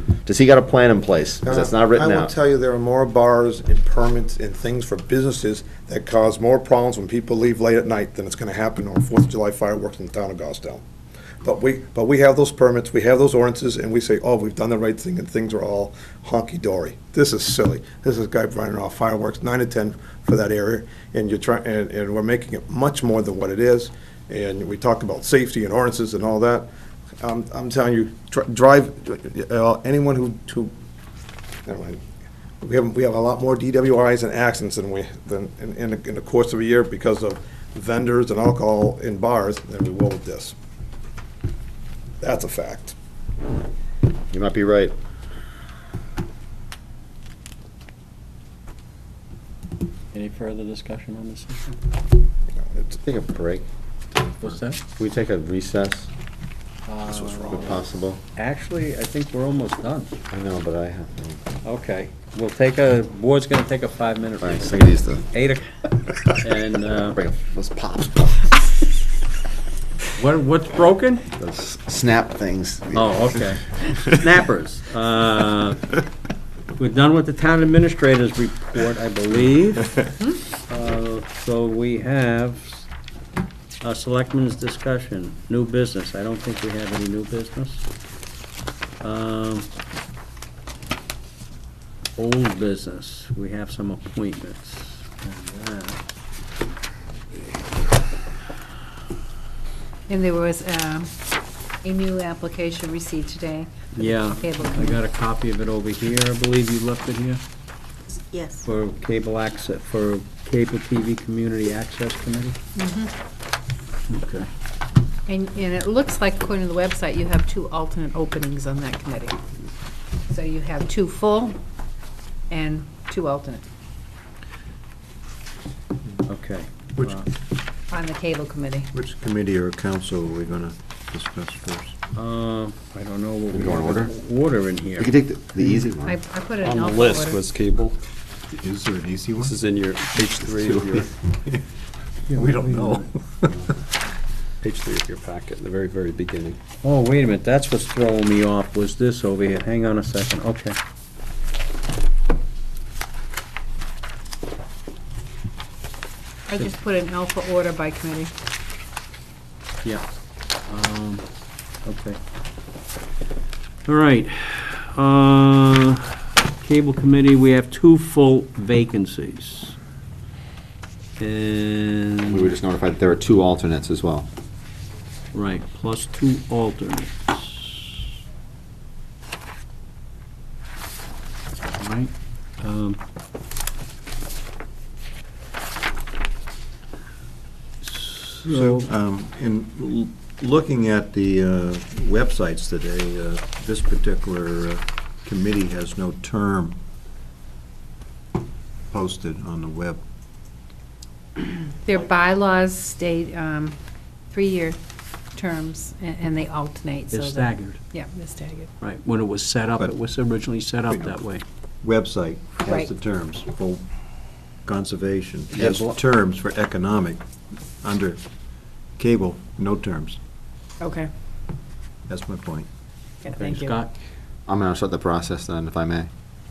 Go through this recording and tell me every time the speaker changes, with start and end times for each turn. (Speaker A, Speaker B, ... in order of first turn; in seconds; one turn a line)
Speaker A: 0.2-2.3
Speaker B: 1.4-10.8
Speaker B: 11.4-26.7
Speaker B: 27.2-30.7
Speaker B: 31.7-32.0
Speaker B: 32.6-40.5
Speaker B: 42.2-43.0
Speaker A: 44.3-44.9
Speaker C: 50.1-51.8
Speaker B: 52.6-53.0
Speaker A: 53.0-56.1
Speaker C: 54.4-54.8
Speaker C: 56.9-57.8
Speaker B: 57.1-57.7
Speaker A: 57.4-58.2
Speaker C: 58.4-60.2
Speaker A: 60.3-61.4
Speaker C: 61.6-65.7
Speaker A: 64.4-65.3
Speaker C: 66.4-67.2
Speaker A: 67.1-68.6
Speaker C: 70.2-71.3
Speaker A: 71.3-73.1
Speaker C: 72.9-76.0
Speaker C: 76.8-82.9
Speaker C: 83.8-87.9
Speaker C: 89.0-89.7
Speaker C: 92.2-96.0
Speaker D: 100.1-101.1
Speaker D: 101.8-105.0
Speaker C: 104.0-107.4
Speaker C: 108.6-112.6
Speaker D: 112.8-113.1
Speaker C: 114.1-114.5
Speaker D: 115.3-119.4
Speaker D: 120.3-121.6
Speaker D: 122.5-123.7
Speaker C: 126.3-127.3
Speaker D: 127.9-128.9
Speaker E: 128.9-132.0
Speaker C: 132.2-135.1
Speaker A: 133.5-134.1
Speaker A: 135.0-136.2
Speaker D: 136.0-137.4
Speaker F: 136.6-138.0
Speaker E: 138.5-139.6
Speaker F: 139.4-141.1
Speaker E: 140.7-141.0
Speaker E: 142.3-143.1
Speaker C: 142.3-143.0
Speaker F: 144.6-146.6
Speaker C: 146.8-150.8
Speaker D: 156.5-158.3
Speaker C: 160.7-161.3
Speaker C: 161.8-162.2
Speaker C: 163.9-169.8
Speaker C: 171.2-172.5
Speaker A: 172.3-174.3
Speaker C: 175.3-177.8
Speaker C: 181.8-183.0
Speaker C: 187.8-188.9
Speaker E: 188.4-196.8
Speaker E: 198.9-200.0
Speaker D: 201.8-203.8
Speaker D: 204.3-204.8
Speaker D: 205.3-208.7
Speaker C: 207.1-207.8
Speaker C: 208.8-211.4
Speaker E: 210.9-211.2
Speaker E: 211.8-213.8
Speaker E: 214.7-217.2
Speaker E: 217.8-218.2
Speaker E: 219.0-220.2
Speaker D: 220.8-221.1
Speaker E: 222.1-222.7
Speaker D: 223.2-223.8
Speaker C: 223.3-223.9
Speaker A: 224.5-226.1